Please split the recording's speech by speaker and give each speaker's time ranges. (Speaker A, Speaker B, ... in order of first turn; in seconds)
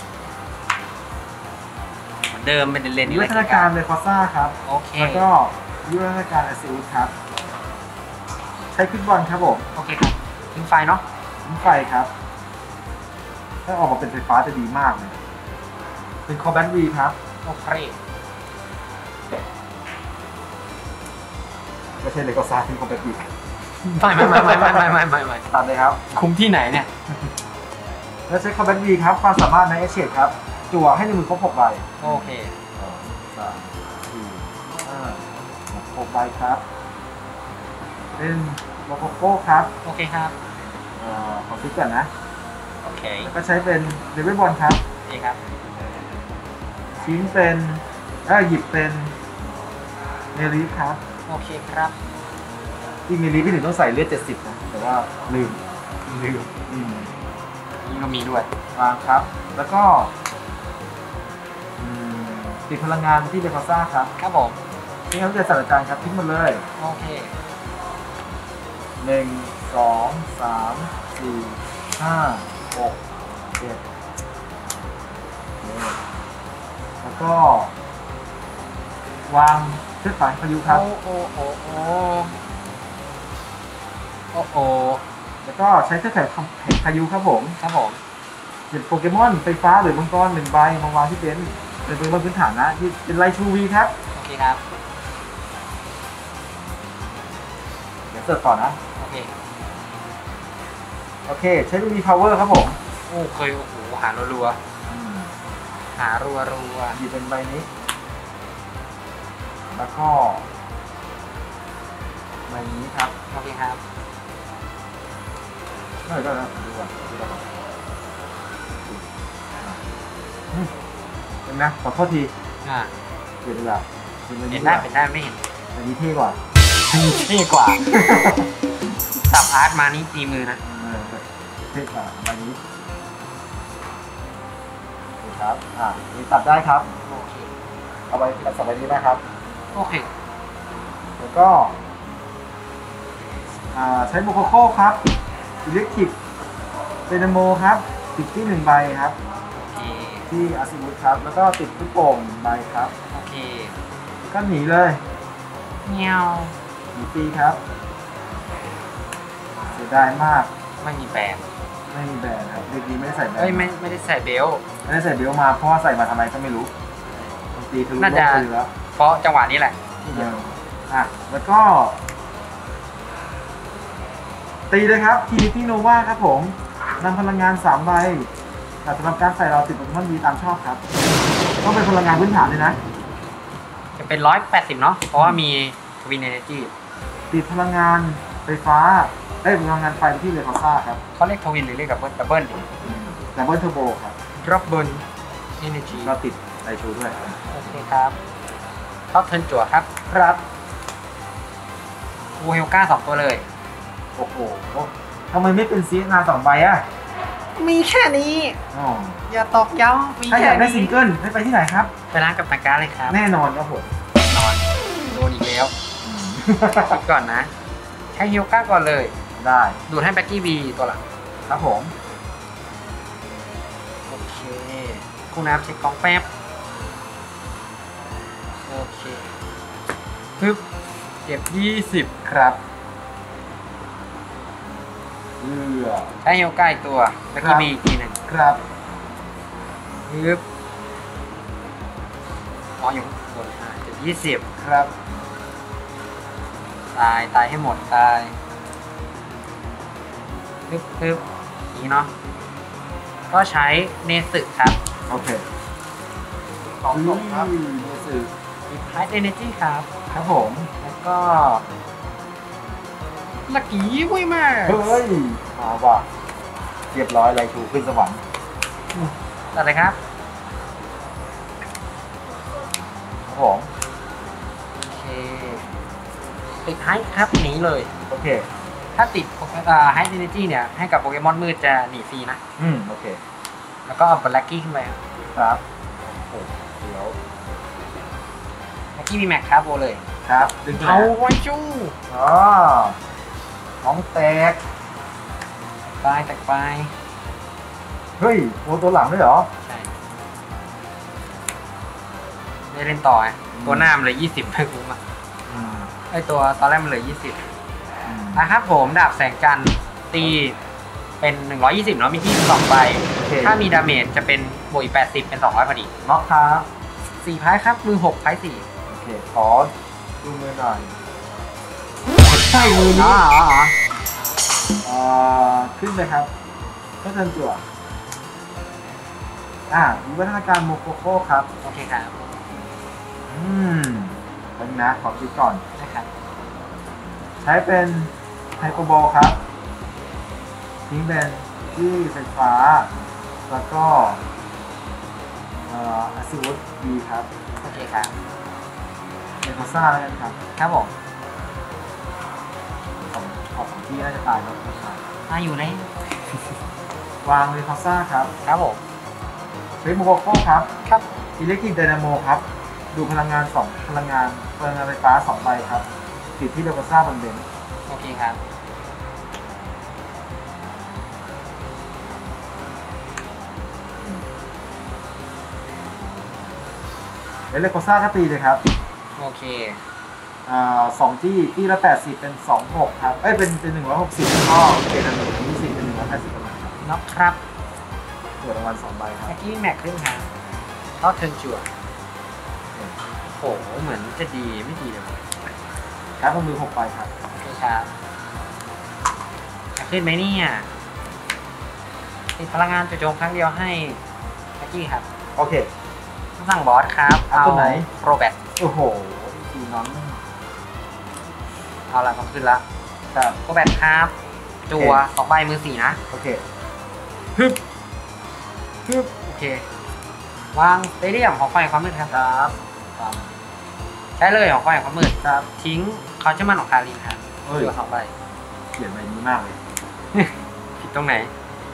Speaker A: 2.3-3.7, 4.6-5.3, 9.7-11.0, 17.4-18.0, 23.8-25.4, 26.1-26.9, 32.0-32.6, 39.8-40.4, 42.8-43.3, 45.1-45.4, 51.3-52.0, 56.1-56.5, 57.8-58.5, 64.2-64.6, 66.8-67.3, 80.7-82.3, 84.3-85.0, 87.6-88.0, 94.2-94.6, 99.0-99.3, 103.1-104.6, 106.0-107.0, 113.3-113.8, 122.6-122.9, 124.5-125.4, 126.9-127.9, 129.2-130.6, 137.1-137.5, 139.7-140.1, 149.5-150.3, 153.1-153.8, 155.8-156.6, 160.8-161.4, 163.4-164.6, 167.1-167.3, 168.0-170.4, 184.0-186.7, 191.2-192.9, 194.4-195.1, 195.6-196.1, 197.5-198.2, 199.1-200.4, 202.4-203.5, 207.6-208.6, 209.3-211.0, 212.1-213.2, 214.2-215.7, 216.8-217.5, 218.1-219.2, 219.9-221.0, 224.1-226.3, 228.7-229.3, 230.4-230.7, 231.2-232.1, 236.2-238.3, 240.1-240.4, 242.8-244.5, 246.9-248.4, 250.7-252.1, 253.3-254.8, 256.9-257.5, 258.7-259.9, 260.8-261.6, 263.5-265.0, 268.9-270.0, 274.9-275.7, 276.5-277.9, 279.0-282.4, 283.9-285.0, 288.9-290.0, 290.8-291.9, 296.0-296.9, 299.6-299.9, 302.7-305.0, 306.1-307.4, 308.3-310.6, 311.2-315.9, 317.2-318.6, 322.9-323.8, 331.6-332.1, 335.8-336.1, 347.6-348.2, 350.6-350.9, 355.3-356.6, 358.4-358.8, 360.9-361.1, 367.9-368.4, 379.2-379.8, 386.8-387.4, 389.2-390.3, 391.0-391.7, 393.3-395.5, 397.3-397.9, 399.8-400.7, 402.4-404.0, 404.6-405.1, 406.4-408.4, 411.9-412.6, 413.4-414.1, 414.6-416.0, 418.9-419.6, 420.5-422.2, 424.2-428.1, 430.1-431.3
Speaker B: 3.0-7.1, 8.7-9.7, 11.4-12.1, 13.7-15.2, 16.3-17.2, 22.0-23.3, 24.0-24.9, 25.5-26.0, 28.3-36.6, 38.2-39.7, 41.0-42.1, 43.2-44.8, 47.0-49.1, 50.3-51.0, 53.1-55.6, 56.7-57.1, 58.8-60.1, 61.8-64.1, 65.1-66.6, 69.0-73.0, 73.5-73.8, 75.6-76.0, 77.0-77.7, 79.3-80.9, 85.4-87.6, 88.7-93.9, 98.1-98.8, 101.3-102.8, 104.9-105.3, 107.0-107.7, 109.7-110.5, 112.5-113.1, 116.1-117.5, 121.5-122.3, 123.4-124.9, 125.7-126.4, 127.9-128.5, 130.6-132.6, 135.2-136.9, 138.1-139.2, 141.2-141.8, 143.7-145.0, 145.6-146.2, 147.1-149.2, 150.3-152.9, 154.3-155.0, 156.9-157.6, 159.7-160.5, 161.9-163.8, 164.8-166.7, 167.5-168.7, 170.1-172.0, 174.7-178.3, 178.8-180.8, 181.6-182.8, 187.3-191.0, 192.8-194.2, 196.0-197.6, 204.2-206.9, 208.7-209.2, 210.3-211.9, 213.1-213.9, 216.0-217.0, 219.4-219.8, 221.5-221.9, 232.2-232.6, 235.4-236.1, 237.4-237.7, 238.3-238.6, 244.6-244.9, 255.1-255.4, 256.8-258.3, 260.1-260.7, 264.6-266.1, 266.9-268.2, 273.3-273.7, 278.1-278.5, 282.6-283.2, 285.3-287.2, 290.2-291.1, 292.1-293.0, 293.8-294.6, 298.2-299.5, 303.5-303.9, 305.5-305.9, 308.0-308.5, 313.2-313.6, 316.0-316.7, 318.9-320.9, 322.2-323.2, 324.8-326.3, 327.0-327.6, 329.7-331.5, 333.3-335.6, 337.4-339.4, 340.9-342.9, 343.5-344.2, 345.7-347.3, 349.4-350.4, 353.1-355.0, 357.2-358.3, 359.8-360.7, 361.4-365.9, 366.4-367.5, 377.5-378.6, 380.5-386.8, 388.4-389.4, 396.2-397.1, 405.4-405.7, 407.3-407.9, 408.6-410.2, 414.7-415.0, 416.1-416.4, 422.1-423.2, 427.4-427.7, 428.7-429.6